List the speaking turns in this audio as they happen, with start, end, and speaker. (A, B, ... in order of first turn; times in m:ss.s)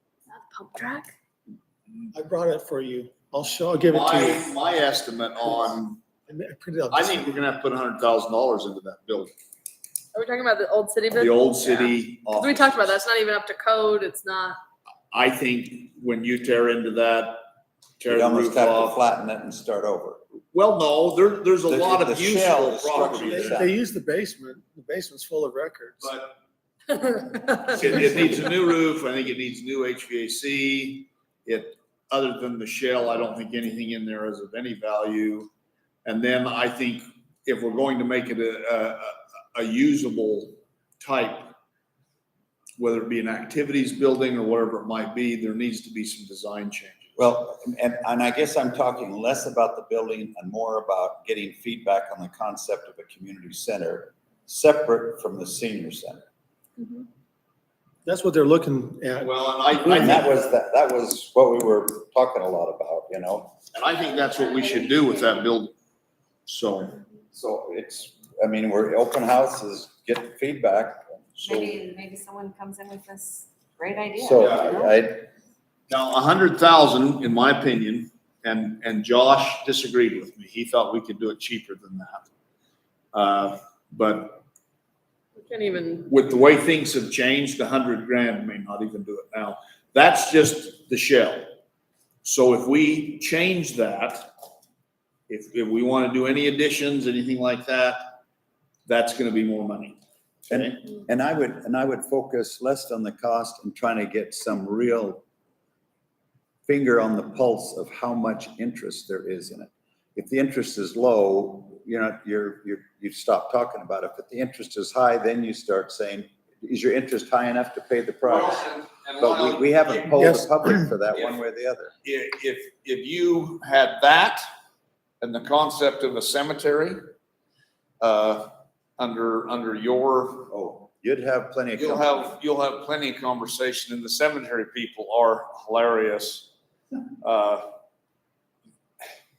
0:00.3-0:01.1 A
0:02.1-0:04.6 B
0:03.9-0:06.0 C
0:06.3-0:07.3 B
0:06.9-0:09.3 C
0:10.1-0:11.3 A
0:11.2-0:13.0 C
0:12.4-0:14.6 A
0:15.1-0:17.4 C
0:18.0-0:19.0 C
0:18.0-0:20.2 D
0:20.5-0:23.7 C
0:21.7-0:23.7 D
0:23.2-0:26.1 B
0:26.0-0:26.3 C
0:27.6-0:35.5 C
0:36.0-0:41.6 C
0:42.8-0:47.2 C
0:47.2-0:56.2 D
0:58.0-0:59.3 B
0:59.2-1:00.4 C
0:59.8-1:03.6 D
1:03.7-1:05.7 C
1:06.5-1:07.0 C
1:07.3-1:11.3 D
1:11.4-1:11.8 C
1:11.4-1:14.9 E
1:14.2-1:15.3 D
1:15.9-1:22.3 C
1:23.1-1:24.4 C
1:25.5-1:26.1 A
1:26.1-1:31.5 C
1:32.2-1:34.3 C
1:35.3-1:38.0 C
1:38.9-1:40.0 C
1:40.5-1:45.2 D
1:46.7-1:58.7 D
1:58.2-2:00.1 C
1:59.2-2:01.9 D
2:00.1-2:00.8 B
2:01.1-2:01.4 C
2:02.0-2:04.4 C
2:05.2-2:07.0 C
2:08.0-2:10.5 C
2:10.5-2:12.3 D
2:11.8-2:16.5 C
2:17.2-2:17.7 C